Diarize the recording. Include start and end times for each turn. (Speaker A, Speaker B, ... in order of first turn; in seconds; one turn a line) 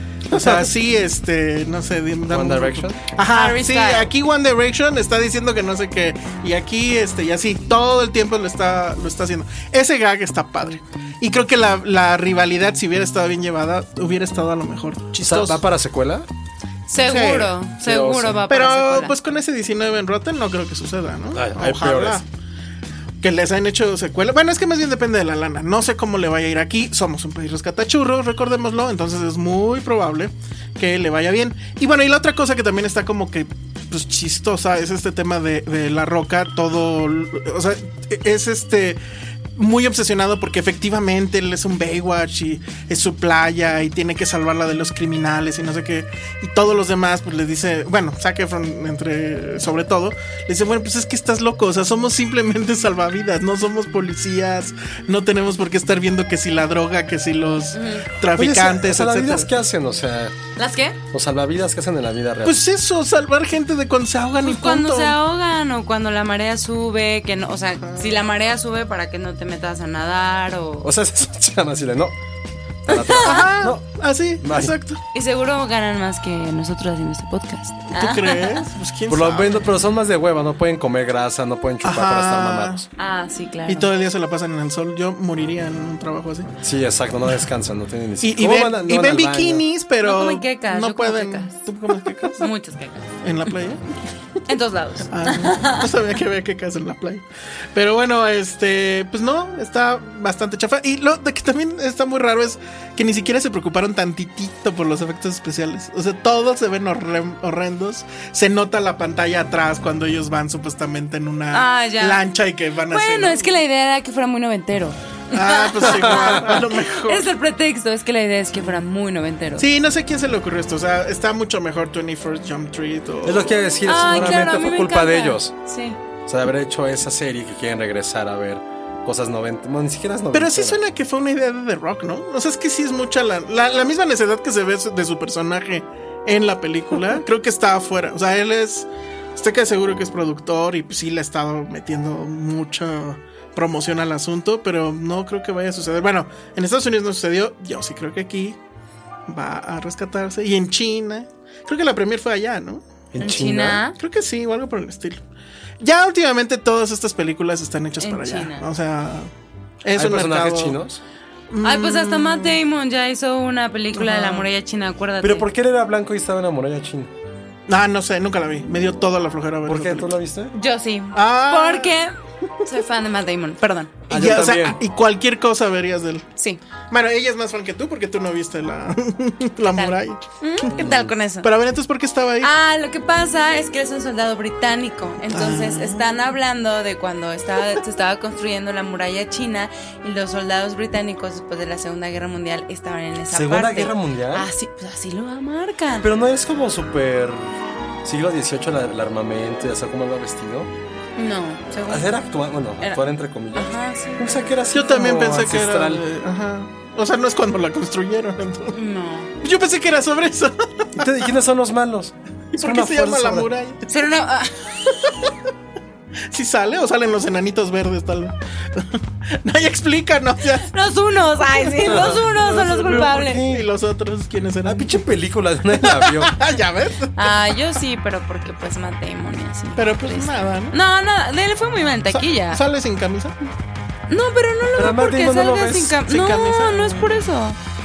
Speaker A: 0.3-15.6
Speaker B: 0.3-0.7
Speaker B: 2.3-3.1
Speaker C: 3.3-4.1
Speaker B: 15.2-16.3
Speaker C: 16.9-19.2
Speaker A: 17.0-17.5
Speaker B: 17.8-18.4
Speaker A: 18.5-22.2
Speaker B: 21.3-22.2
Speaker A: 23.2-39.0
Speaker A: 39.6-59.5
Speaker C: 57.7-58.1
Speaker B: 58.4-60.4
Speaker C: 60.6-61.0
Speaker B: 61.1-62.6
Speaker A: 62.4-65.2
Speaker C: 64.4-70.9
Speaker A: 67.8-68.1
Speaker B: 70.8-72.2
Speaker B: 72.9-73.8
Speaker C: 72.9-73.5
Speaker A: 73.2-75.0
Speaker B: 74.4-74.7
Speaker C: 75.1-78.7
Speaker A: 77.9-79.7
Speaker B: 79.1-82.9
Speaker A: 81.8-82.9
Speaker C: 83.0-83.9
Speaker A: 83.7-86.5
Speaker B: 86.6-89.6
Speaker A: 88.2-92.5
Speaker C: 90.0-91.7
Speaker C: 92.4-93.1
Speaker A: 93.2-93.9
Speaker C: 94.5-95.9
Speaker A: 95.1-113.5
Speaker C: 111.5-112.2
Speaker C: 112.9-119.7
Speaker A: 115.3-117.3
Speaker B: 115.8-116.5
Speaker A: 119.6-123.6
Speaker B: 123.2-125.5
Speaker C: 123.8-126.0
Speaker A: 124.1-124.4
Speaker B: 126.3-130.8
Speaker A: 130.3-148.6
Speaker A: 149.3-152.9
Speaker B: 153.1-153.8
Speaker C: 153.2-154.0
Speaker A: 154.0-155.2
Speaker A: 155.8-159.3
Speaker C: 158.0-158.7
Speaker A: 159.8-160.8
Speaker B: 159.9-161.0
Speaker A: 161.5-162.6
Speaker C: 161.6-165.5
Speaker A: 163.9-164.5
Speaker B: 165.2-167.1
Speaker A: 167.7-170.2
Speaker B: 169.7-170.5
Speaker C: 170.5-172.1
Speaker A: 171.2-171.9
Speaker C: 172.7-174.1
Speaker B: 174.1-174.8
Speaker A: 174.1-176.3
Speaker A: 176.9-180.7
Speaker C: 179.7-181.5
Speaker B: 180.7-181.1
Speaker A: 181.4-182.5
Speaker C: 182.4-196.1
Speaker A: 185.3-186.1
Speaker B: 193.3-194.5
Speaker B: 196.0-200.7
Speaker C: 201.2-202.2
Speaker B: 201.9-206.0
Speaker C: 203.6-204.5
Speaker A: 204.7-208.8
Speaker C: 208.7-209.3
Speaker A: 209.4-211.2
Speaker B: 211.0-213.5
Speaker A: 212.6-213.8
Speaker C: 213.9-214.6
Speaker A: 214.9-215.3
Speaker A: 216.3-220.7
Speaker C: 220.7-223.4
Speaker A: 221.6-225.0
Speaker B: 221.9-222.2
Speaker B: 222.9-223.7
Speaker B: 224.7-226.4
Speaker A: 225.7-227.4
Speaker C: 227.2-232.6
Speaker A: 229.8-230.8
Speaker A: 232.1-233.4
Speaker C: 234.1-237.6
Speaker B: 234.8-236.0
Speaker A: 236.0-237.3